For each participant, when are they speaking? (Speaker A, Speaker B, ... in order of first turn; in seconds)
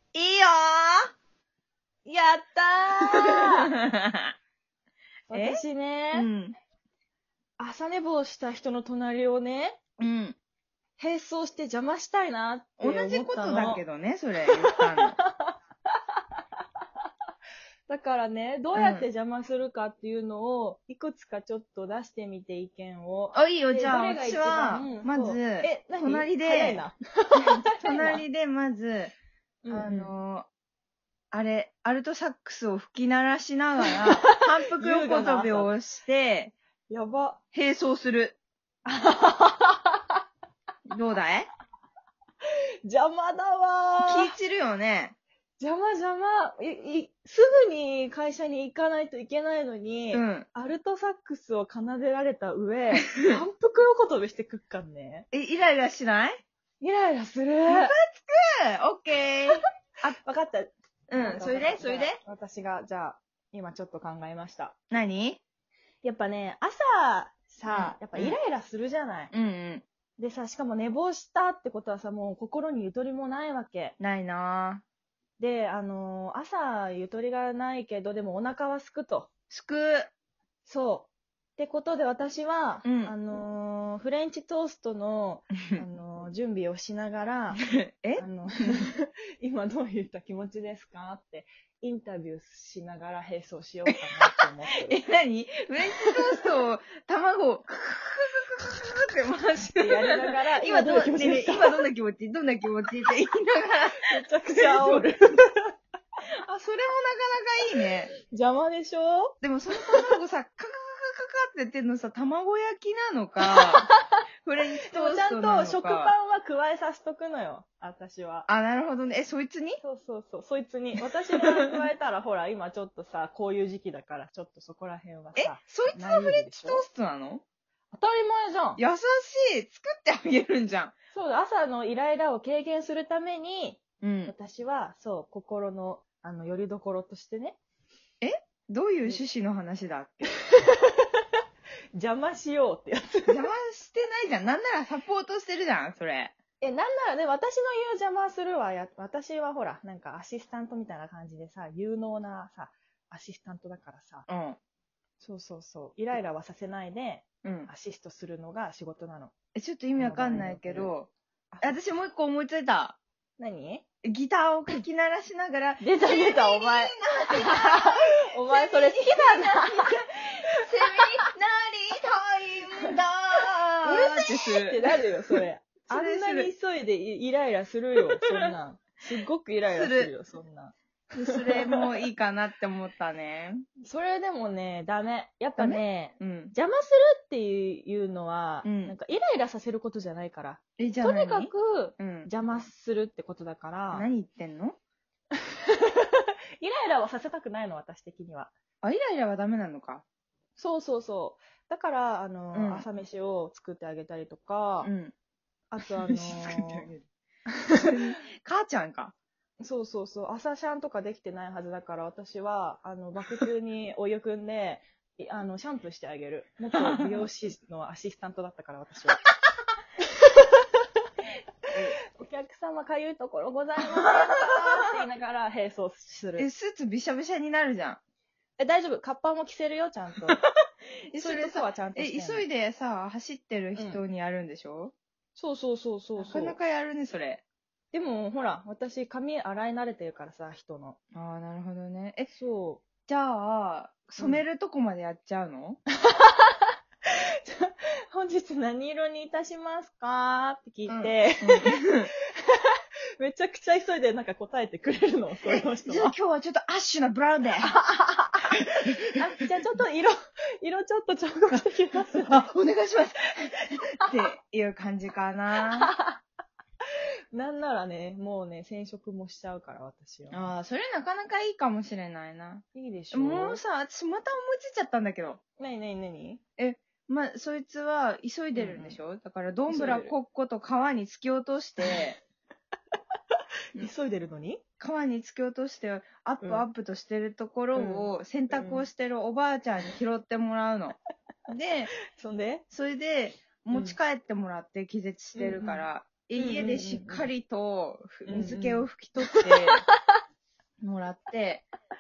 Speaker A: 0.1-1.1, 3.7-4.3, 5.3-6.5, 10.0-10.4, 12.8-15.2, 18.7-19.1, 23.3-26.8, 27.4-29.1, 29.7-30.5, 31.3-36.5, 37.5-38.4, 40.9-41.5, 44.0-45.1, 50.1-50.5, 53.0-53.4, 55.3-56.4, 57.7-60.2, 61.1-62.2, 64.9-65.4, 67.7-68.4, 69.3-69.8, 74.0-74.8, 79.5-80.1, 82.8-83.2, 87.6-88.9, 93.9-105.1, 106.4-108.1, 109.4-113.9, 114.4-116.1, 118.5-119.8, 121.4-121.8, 125.3-127.4, 128.8-130.9, 134.0-134.3, 138.2-140.3, 143.3-146.3, 154.3-154.6, 157.4-157.7, 159.5-161.1, 161.6-163.0, 164.0-176.5, 177.9-178.5, 179.7-180.1, 181.1-183.6, 185.6-186.5, 188.6-189.0, 190.8-192.3, 193.9-194.8, 198.8-200.0, 202.5-202.9, 204.8-205.1, 206.0-207.0, 207.8-209.1, 216.7-217.3, 221.7-222.0, 224.0-224.4, 226.4-228.0, 231.1-234.9, 236.2-237.4, 241.1-242.3, 243.1-245.8, 250.9-252.1, 255.4-257.7, 258.5-259.0, 261.9-265.9, 270.3-275.4, 276.6-282.2, 284.8-290.9, 291.5-291.9, 292.7-299.8, 300.8-301.7
Speaker B: 2.0-3.7, 5.3-6.3, 7.6-9.8, 11.0-13.8, 14.5-15.5, 16.1-17.1, 17.9-28.2, 29.6-30.1, 33.9-35.7, 36.9-37.4, 38.9-40.2, 42.8-44.3, 45.6-55.2, 56.8-57.9, 60.1-64.7, 66.0-69.3, 70.2-74.0, 75.4-79.3, 80.6-87.6, 88.2-94.9, 99.8-101.8, 104.0-105.7, 108.2-110.1, 113.5-114.2, 114.8-118.5, 119.8-126.8, 127.9-128.8, 131.1-137.6, 140.5-141.2, 141.9-143.5, 146.6-154.2, 155.2-159.3, 159.9-160.9, 161.5-161.8, 163.4-163.8, 165.8-169.8, 173.8-180.7, 181.3-181.8, 183.8-194.1, 195.7-198.5, 200.6-204.9, 205.7-206.9, 209.6-219.2, 220.2-220.7, 222.1-226.5, 228.6-230.4, 231.2-232.4, 233.8-234.0, 235.3-236.6, 237.9-241.0, 242.3-242.8, 246.0-256.1, 257.8-258.5, 259.1-262.5, 265.8-266.2, 267.3-270.5, 272.7-273.6, 275.6-276.4, 278.5-279.0, 279.7-280.1, 283.8-284.6, 287.7-288.9, 292.1-292.6, 293.7-294.0, 295.3-295.8, 296.4-297.3, 298.3-299.9